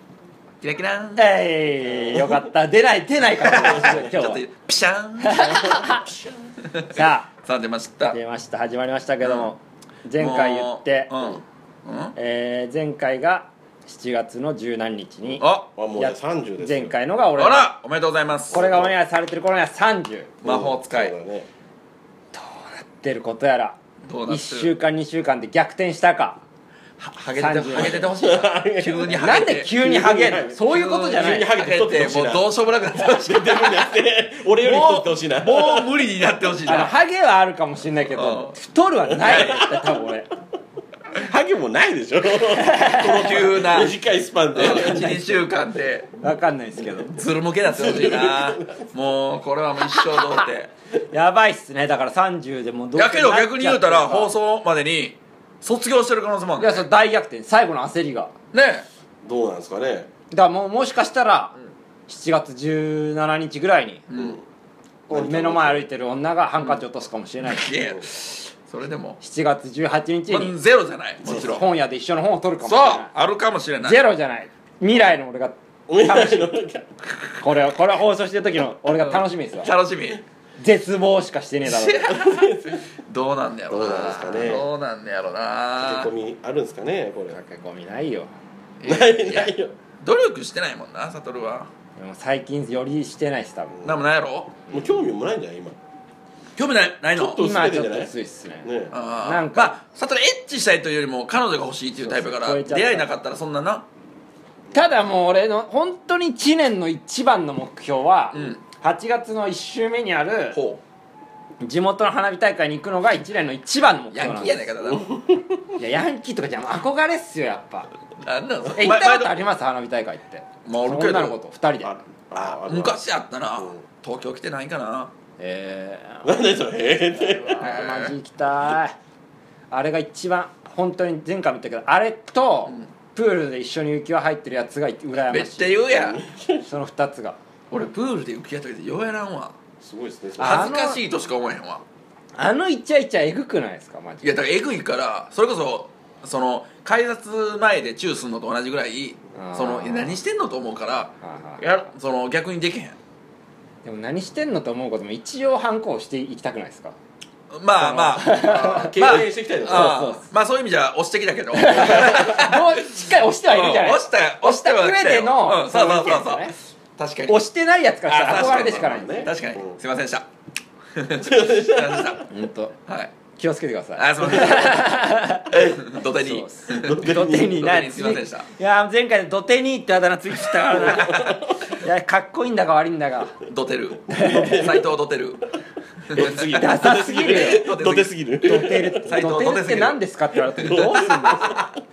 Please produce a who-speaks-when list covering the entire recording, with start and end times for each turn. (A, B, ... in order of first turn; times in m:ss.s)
0:00.6-0:01.3 A
0:01.2-0:04.4 B
0:01.9-0:02.3 C
0:03.4-0:05.8 A
0:03.8-0:04.0 C
0:05.2-0:06.1 B
0:05.6-0:06.3 C
0:06.6-0:08.2 A
0:06.9-0:07.3 B
0:08.1-0:11.1 B
0:09.2-0:09.5 A
0:10.2-0:12.1 A
0:12.2-0:15.4 B
0:15.4-0:15.7 A
0:15.8-0:17.0 C
0:16.0-0:17.7 B
0:17.4-0:18.6 A
0:18.5-0:18.9 C
0:18.5-0:20.4 B
0:20.4-0:21.5 C
0:20.4-0:21.1 A
0:22.3-0:26.4 B
0:24.1-0:24.7 A
0:27.0-0:29.7 A
0:27.4-0:28.1 B
0:27.9-0:36.1 C
0:29.1-0:31.5 B
0:30.6-0:33.9 A
0:34.6-0:37.0 A
0:36.7-0:40.3 B
0:38.1-0:38.6 A
0:39.1-0:39.7 C
0:39.1-0:39.7 A
0:41.1-0:45.1 C
0:42.5-0:43.5 B
0:43.0-0:44.0 A
0:44.6-0:46.2 A
0:44.6-0:45.5 B
0:46.2-0:47.2 B
0:47.0-0:50.7 A
0:47.6-0:48.9 C
0:50.0-0:50.5 B
0:51.1-0:54.3 B
0:53.0-0:56.8 A
0:56.6-0:58.4 B
0:58.5-0:58.9 A
0:59.2-1:00.1 C
1:00.3-1:01.6 B
1:02.1-1:04.0 B
1:04.1-1:04.4 A
1:04.1-1:04.4 C
1:05.1-1:05.9 C
1:05.1-1:07.7 B
1:07.4-1:09.2 A
1:09.2-1:10.6 B
1:10.3-1:11.6 A
1:11.3-1:11.6 C
1:11.3-1:13.1 B
1:12.6-1:14.0 A
1:13.8-1:16.6 B
1:15.9-1:16.9 C
1:17.4-1:19.7 B
1:19.0-1:20.2 A
1:20.6-1:22.2 B
1:21.6-1:26.1 A
1:22.1-1:22.8 C
1:23.7-1:24.7 C
1:23.8-1:24.6 B
1:25.8-1:27.4 C
1:27.3-1:28.3 B
1:28.8-1:31.7 A
1:28.8-1:29.7 C
1:32.0-1:33.9 B
1:33.8-1:34.7 A
1:34.7-1:35.8 C
1:36.6-1:37.4 A
1:37.2-1:38.1 C
1:37.4-1:39.8 B
1:38.6-1:39.0 C
1:38.9-1:43.9 A
1:42.0-1:43.1 B
1:44.7-1:50.6 B
1:48.3-1:48.6 A
1:50.5-1:50.8 A
1:51.6-1:54.6 B
1:54.1-1:55.1 A
1:54.8-1:55.8 C
1:55.8-1:57.9 B
1:58.2-1:59.4 A
1:58.8-2:02.0 B
2:00.7-2:01.4 A
2:01.8-2:03.1 C
2:02.6-2:05.1 A
2:03.6-2:03.8 C
2:05.4-2:06.5 B
2:06.2-2:07.7 C
2:07.1-2:09.0 B
2:07.6-2:08.2 A
2:09.7-2:15.8 B
2:15.3-2:16.2 A
2:15.9-2:16.7 C
2:16.7-2:17.4 B
2:17.7-2:19.6 A
2:19.8-2:20.7 C
2:20.4-2:21.0 B
2:20.4-2:21.8 A
2:22.4-2:24.4 B
2:24.2-2:33.0 A
2:29.4-2:30.2 B
2:31.2-2:31.6 B
2:33.8-2:37.0 B
2:37.5-2:47.4 A
2:37.8-2:40.3 B
2:38.2-2:40.1 C
2:41.5-2:46.6 B
2:47.3-2:49.3 B
2:48.1-2:50.3 A
2:48.2-2:49.8 C
2:51.0-2:52.3 A
2:51.2-2:52.3 C
2:52.3-2:52.7 B
2:52.9-2:53.1 A
2:53.4-3:03.4 B
2:54.0-2:55.0 A
2:54.2-2:54.6 C
2:55.5-2:58.5 A
2:56.7-2:57.6 C
3:00.7-3:01.2 A
3:00.8-3:01.5 C
3:03.4-3:05.5 A
3:04.1-3:04.5 B
3:04.1-3:04.9 C
3:06.0-3:10.0 A
3:06.1-3:09.2 C
3:06.5-3:07.7 B
3:08.4-3:11.6 B
3:10.6-3:11.6 C
3:10.6-3:11.7 A